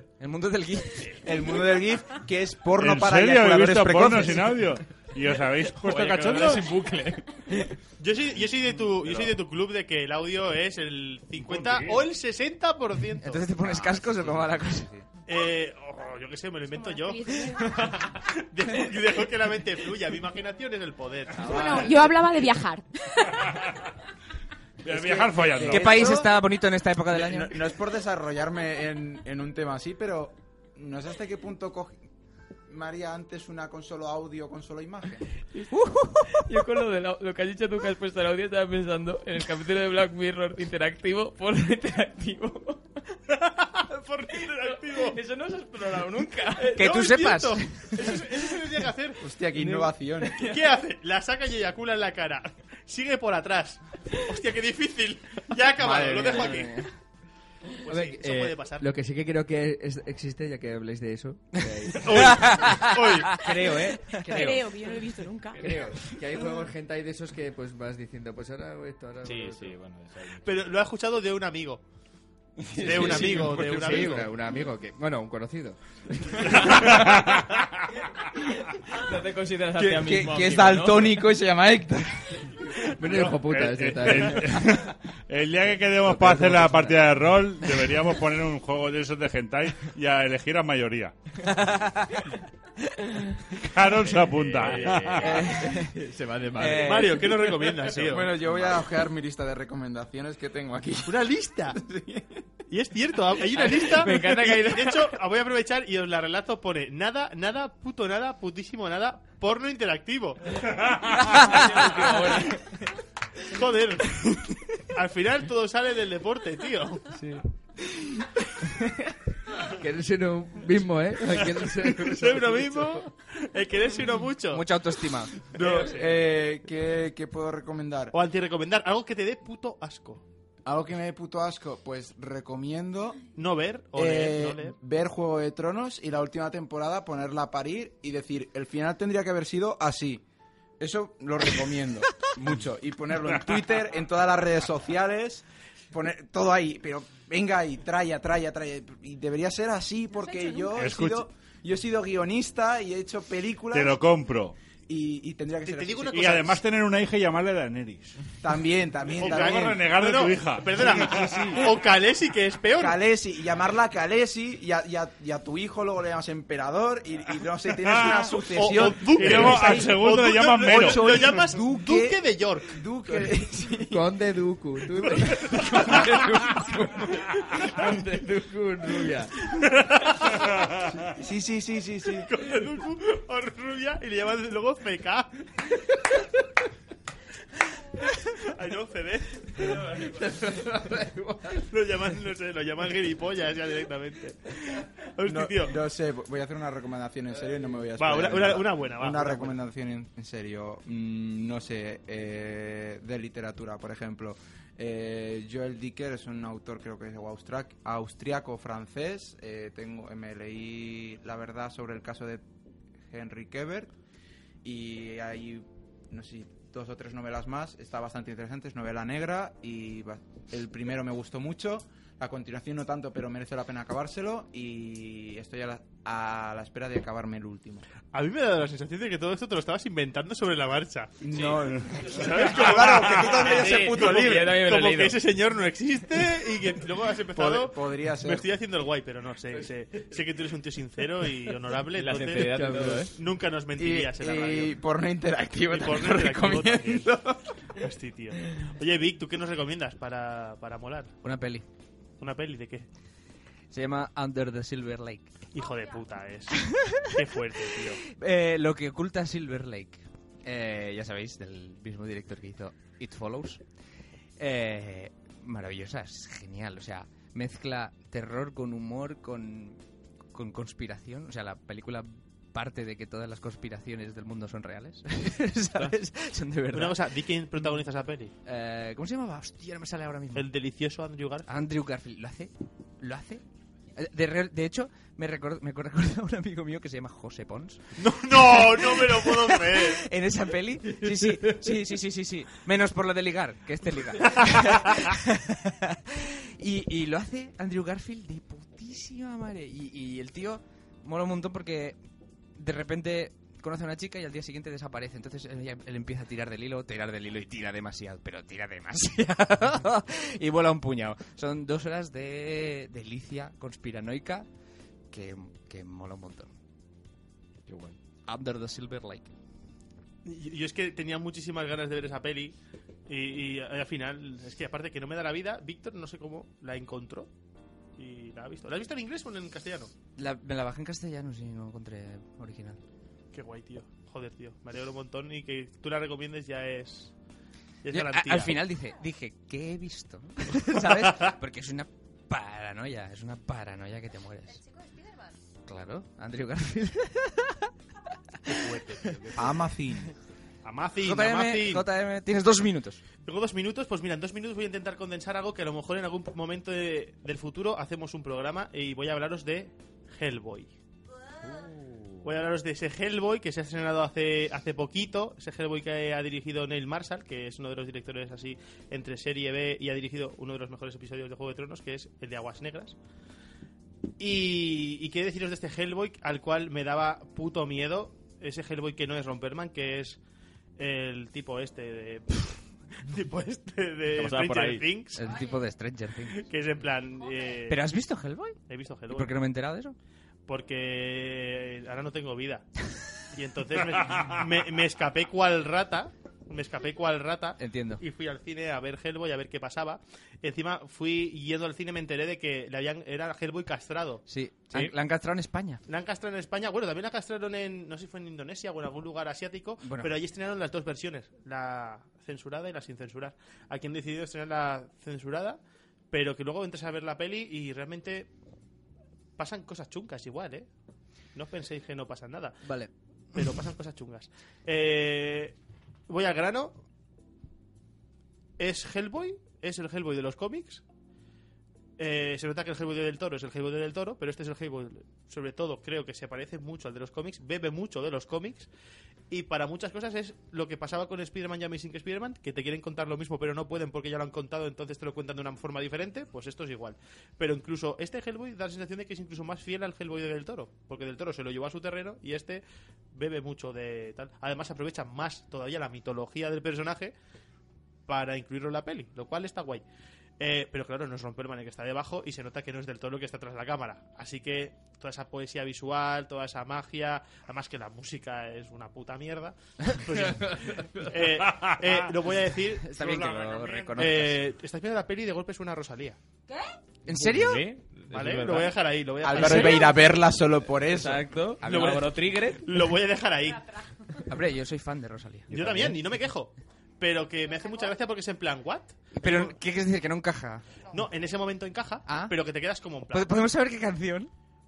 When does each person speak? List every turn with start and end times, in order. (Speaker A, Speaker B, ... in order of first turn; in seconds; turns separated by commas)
Speaker A: 0.2-1.2, Speaker B: 1.2-4.7, Speaker C: 2.8-6.8, Speaker D: 5.7-7.7, Speaker E: 8.0-13.4, Speaker C: 11.4-12.0, Speaker A: 13.2-14.9, Speaker B: 13.6-15.0, Speaker E: 15.3-22.0, Speaker F: 16.9-17.6, Speaker F: 21.4-23.5, Speaker C: 24.8-26.1, Speaker B: 24.8-26.4, Speaker A: 25.6-27.6, Speaker B: 27.1-32.0, Speaker B: 32.7-35.3, Speaker A: 35.7-36.6, Speaker D: 36.2-43.2, Speaker E: 43.4-45.2, Speaker D: 44.3-46.8, Speaker E: 46.6-49.2, Speaker A: 46.7-48.1, Speaker B: 49.2-50.4, Speaker D: 49.6-50.6, Speaker E: 50.4-56.9, Speaker A: 55.8-56.9, Speaker E: 57.8-58.9, Speaker G: 57.9-62.6, Speaker A: 61.5-63.4, Speaker E: 62.0-63.5, Speaker G: 63.4-64.8, Speaker A: 64.0-64.5, Speaker F: 64.3-65.7, Speaker G: 65.6-69.8, Speaker D: 69.2-70.5, Speaker E: 70.4-71.8, Speaker G: 72.6-76.9, Speaker E: 72.8-74.3, Speaker A: 72.9-74.1, Speaker C: 76.7-77.6, Speaker D: 78.8-81.2, Speaker B: 79.8-82.6, Speaker G: 82.9-84.7, Speaker C: 83.0-91.1, Speaker G: 86.0-87.0, Speaker A: 91.4-92.2, Speaker C: 93.6-95.5, Speaker D: 94.0-95.9, Speaker A: 95.2-95.9, Speaker G: 95.5-96.9, Speaker A: 96.6-97.3, Speaker E: 96.6-98.4, Speaker B: 98.0-102.4, Speaker E: 101.0-101.8, Speaker E: 102.7-110.7, Speaker D: 103.5-105.2, Speaker D: 111.3-112.8, Speaker E: 111.5-112.2, Speaker E: 113.4-114.3, Speaker E: 114.8-117.1, Speaker G: 119.7-123.0, Speaker E: 121.8-124.7, Speaker A: 124.5-125.3, Speaker E: 125.5-126.1, Speaker B: 125.5-128.1, Speaker E: 128.1-130.2, Speaker B: 130.6-133.2, Speaker E: 133.3-134.8, Speaker B: 133.9-140.2, Speaker B: 140.8-154.0, Speaker C: 150.7-151.3, Speaker C: 153.7-154.6, Speaker B: 154.9-156.4, Speaker E: 155.6-156.6, Speaker C: 156.1-158.2, Speaker B: 158.4-159.8, Speaker C: 159.2-161.6, Speaker E: 159.2-163.0, Speaker B: 160.8-161.7, Speaker B: 162.8-174.0, Speaker E: 168.5-172.8, Speaker C: 169.1-171.3, Speaker G: 173.1-179.3, Speaker B: 175.7-176.5, Speaker E: 179.8-180.5, Speaker C: 180.4-180.8, Speaker B: 181.0-182.3, Speaker E: 182.2-185.4, Speaker E: 188.3-189.8, Speaker G: 189.8-191.6, Speaker E: 191.5-195.8, Speaker B: 195.2-212.4, Speaker E: 198.0-199.6, Speaker B: 213.1-213.9, Speaker B: 214.6-227.8, Speaker E: 228.1-231.2, Speaker B: 231.2-234.5, Speaker D: 231.3-231.6, Speaker E: 232.0-244.8, Speaker D: 233.4-235.2, Speaker B: 237.3-238.5, Speaker D: 241.9-243.1, Speaker G: 242.4-243.1, Speaker B: 243.8-247.4, Speaker E: 245.7-247.1, Speaker E: 247.7-251.1, Speaker A: 251.2-251.6, Speaker E: 252.2-252.9, Speaker A: 253.7-255.3, Speaker E: 255.5-258.0, Speaker A: 256.6-257.1, Speaker A: 258.1-263.6, Speaker A: 264.4-269.8, Speaker A: 270.3-277.0, Speaker E: 276.7-278.3, Speaker A: 278.4-280.5, Speaker E: 280.3-281.5, Speaker A: 281.5-283.4, Speaker A: 283.9-302.0, Speaker E: 288.0-290.0, Speaker A: 302.6-314.5, Speaker A: 315.1-316.5, Speaker D: 317.7-318.0, Speaker A: 318.2-319.3, Speaker E: 320.2-322.5, Speaker E: 323.1-327.3, Speaker E: 328.0-329.9, Speaker A: 330.2-332.8, Speaker E: 333.3-337.1, Speaker E: 337.8-338.5, Speaker A: 337.9-344.6, Speaker E: 340.7-341.3, Speaker A: 345.6-347.7, Speaker E: 348.5-349.4, Speaker B: 349.3-350.1, Speaker E: 350.6-351.9, Speaker A: 351.0-353.0, Speaker E: 353.2-360.7, Speaker D: 361.4-362.2, Speaker E: 362.2-372.9, Speaker E: 374.2-380.2, Speaker E: 380.8-385.5, Speaker D: 384.1-384.9, Speaker A: 385.1-386.4, Speaker E: 386.3-387.9, Speaker A: 387.7-388.6, Speaker E: 388.7-389.4, Speaker A: 389.1-389.9, Speaker E: 390.5-392.7, Speaker E: 393.3-404.9, Speaker A: 397.6-398.0, Speaker A: 404.3-405.8, Speaker E: 405.9-415.6, Speaker A: 409.8-410.1, Speaker E: 416.1-418.3, Speaker E: 419.4-420.7, Speaker E: 421.3-422.6, Speaker A: 422.6-422.9, Speaker E: 423.3-425.5, Speaker E: 426.1-426.8, Speaker E: 428.6-430.8, Speaker E: 432.0-438.7, Speaker E: 439.3-457.1, Speaker E: 458.1-459.8, Speaker E: 460.4-472.9, Speaker C: 471.5-472.0, Speaker A: 472.8-474.4, Speaker C: 472.9-474.0, Speaker E: 473.9-476.2, Speaker A: 477.0-477.6, Speaker D: 477.1-478.8, Speaker E: 478.1-479.9, Speaker B: 479.2-481.3, Speaker D: 479.4-479.8, Speaker D: 480.9-482.7, Speaker A: 481.6-482.1, Speaker E: 481.6-483.7, Speaker A: 484.2-485.9, Speaker E: 485.5-489.6, Speaker D: 485.5-486.0, Speaker A: 489.1-490.6, Speaker E: 490.9-493.4, Speaker A: 492.1-492.4, Speaker A: 493.1-494.3